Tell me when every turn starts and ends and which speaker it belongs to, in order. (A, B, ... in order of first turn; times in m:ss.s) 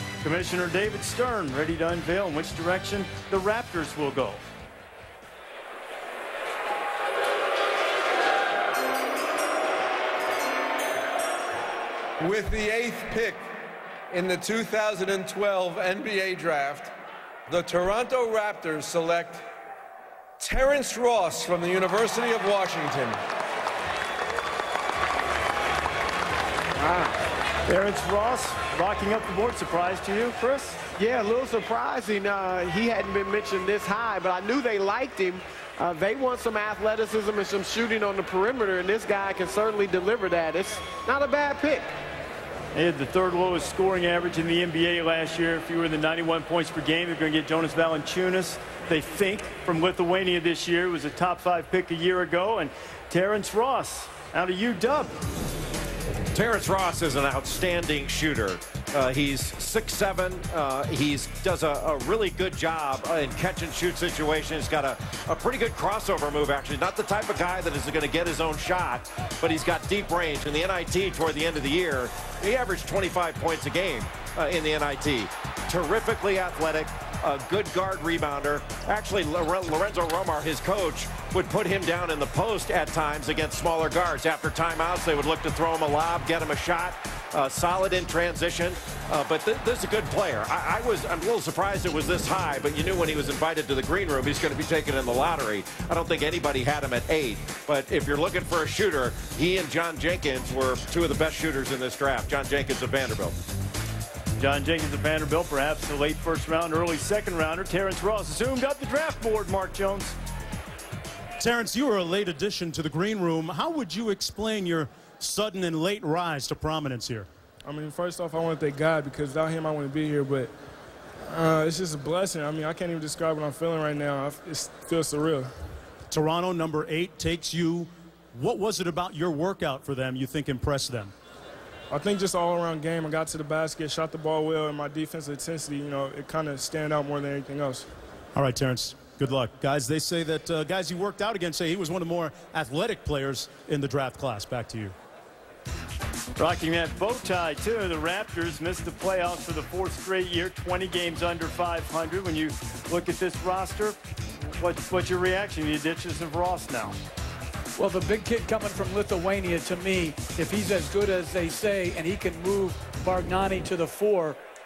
0:00.2-0:04.4 A
0:12.2-0:17.0 B
0:17.5-0:19.5 B
0:20.4-0:23.2 B
0:26.8-0:27.1 C
0:27.7-0:30.8 A
0:31.0-0:41.9 C
0:42.7-0:55.1 A
0:56.3-1:43.4 D
1:44.4-1:50.1 A
1:51.4-1:57.3 E
1:57.6-2:00.5 F
2:01.3-2:05.5 F
2:06.1-2:11.1 E
2:11.9-2:17.9 F
2:18.3-2:24.9 E
2:26.4-2:37.0 A
2:37.8-2:44.4 G